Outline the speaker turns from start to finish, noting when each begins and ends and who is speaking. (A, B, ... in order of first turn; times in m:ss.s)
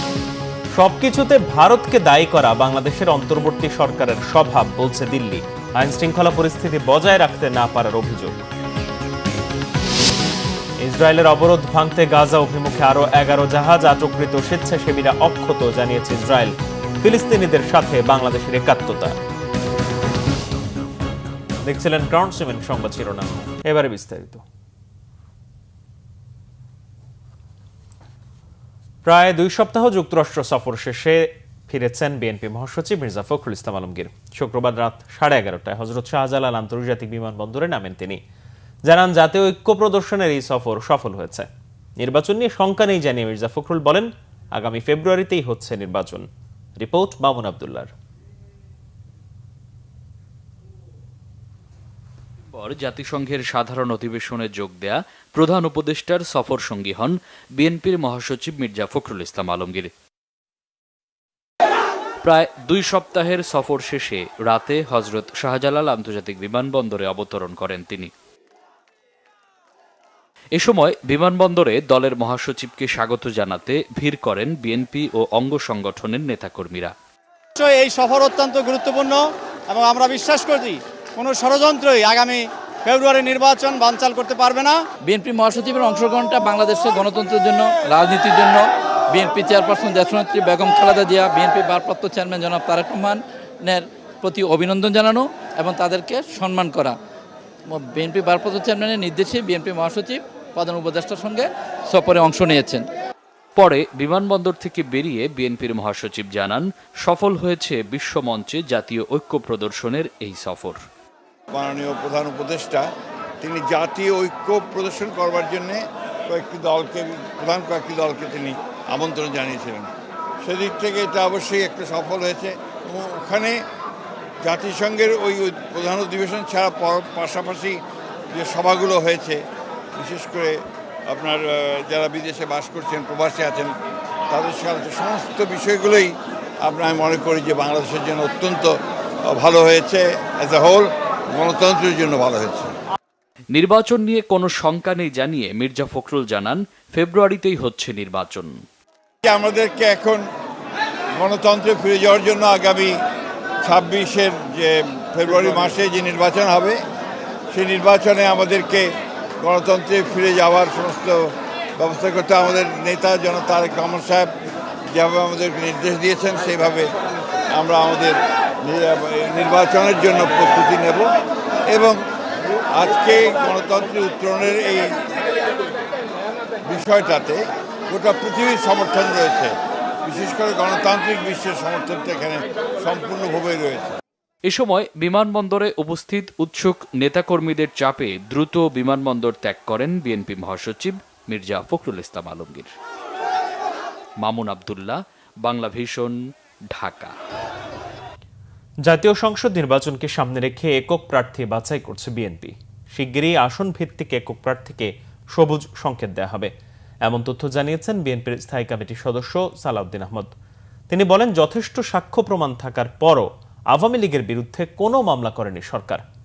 0:00.8-0:08.4 A
0:10.8-0:19.2 A
0:21.7-0:24.4 A
0:29.1-0:38.2 A
0:38.9-0:41.5 A
0:42.0-0:46.3 A
0:46.8-0:47.9 A
0:52.5-0:59.9 B
1:02.2-1:08.1 B
1:10.6-1:16.9 B
1:17.7-1:19.2 C
1:19.7-1:22.4 C
1:22.9-1:24.7 C
1:25.0-1:37.0 D
1:37.7-1:42.9 D
1:43.6-1:50.8 B
1:51.5-1:52.9 E
1:53.4-1:59.9 E
2:00.4-2:03.6 E
2:04.4-2:09.4 E
2:10.0-2:13.7 E
2:14.3-2:18.8 E
2:19.3-2:22.8 E
2:23.5-2:28.6 B
2:29.2-2:30.3 E
2:31.2-2:33.0 E
2:33.6-2:36.8 E
2:37.5-2:44.3 E
2:44.9-2:46.9 E
2:47.5-2:51.1 E
2:51.7-2:52.0 E
2:52.7-2:55.0 E
2:56.6-3:04.0 E
3:04.4-3:12.7 B
3:14.2-3:16.2 B
3:16.7-3:17.1 B
3:18.9-3:26.5 A
3:27.0-3:30.3 A
3:30.9-3:36.0 A